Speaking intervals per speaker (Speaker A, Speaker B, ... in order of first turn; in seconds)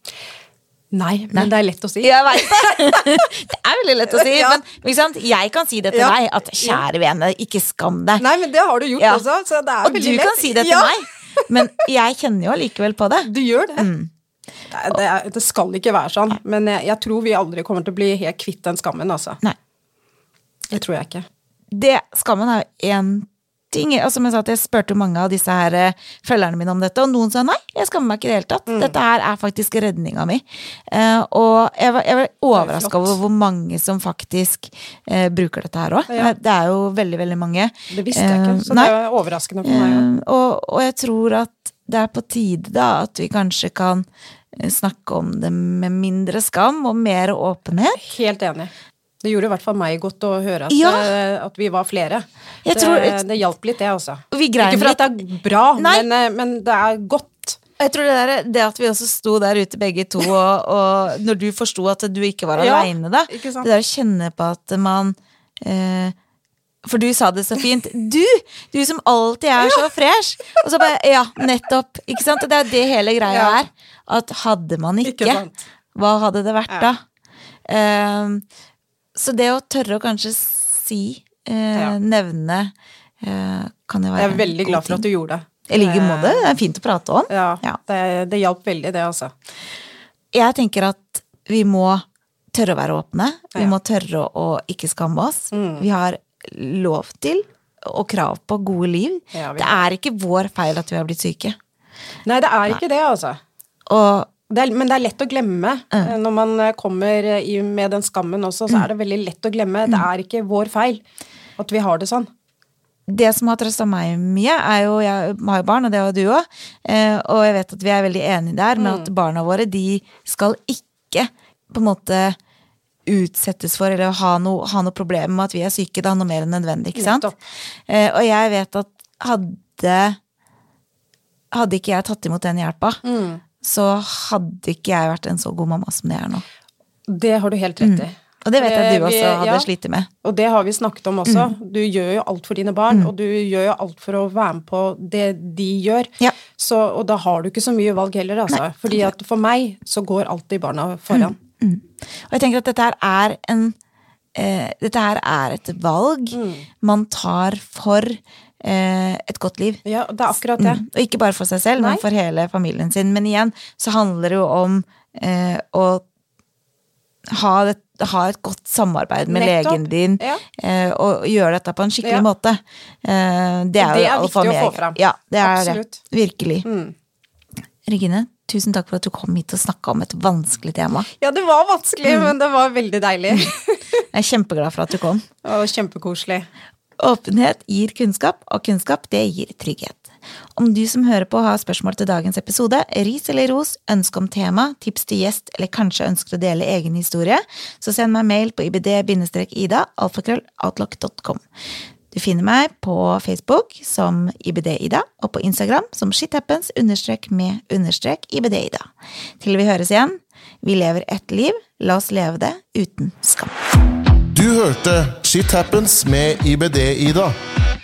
Speaker A: 0.9-3.2, 4.1-4.6, 5.9-6.8, 8.2-11.5, 13.2-13.9, 14.7-19.4, 20.7-21.2, 28.7-28.9, 32.5-33.1, 37.9-40.1, 48.0-48.7, 49.2-57.6, 62.5-63.7, 73.3-73.6, 75.0-75.6, 84.2-86.5, 87.3-89.3, 95.5-95.8, 99.3-99.8, 102.2-103.4, 104.5-111.0, 111.6-112.3, 118.8-119.1, 127.0-127.4, 133.0-133.4, 137.1-139.7, 140.2-151.3, 156.3-156.7, 159.8-160.8, 161.8-162.0, 169.3-170.4, 173.8-176.0, 176.6-176.9, 181.2-184.0, 185.4-186.5
Speaker B: 2.0-8.2, 9.0-9.2, 9.8-14.1, 21.7-38.9, 39.6-48.0, 50.7-51.1, 52.6-53.3, 54.3-55.1, 55.8-56.1, 57.8-66.1, 66.8-75.4, 75.9-77.0, 77.7-78.4, 79.2-85.0, 85.7-87.8, 90.3-101.6, 103.9-104.3, 113.1-122.4, 123.0-127.3, 127.9-130.2, 131.5-133.0, 133.6-136.4, 137.8-140.1, 141.2-141.5, 148.5-149.1, 151.1-153.8, 154.3-159.8, 160.6-166.0, 167.3-176.7, 177.8-181.1, 182.1-182.3, 184.1-185.2, 187.0-201.4, 202.1-213.5
Speaker C: 214.3-217.3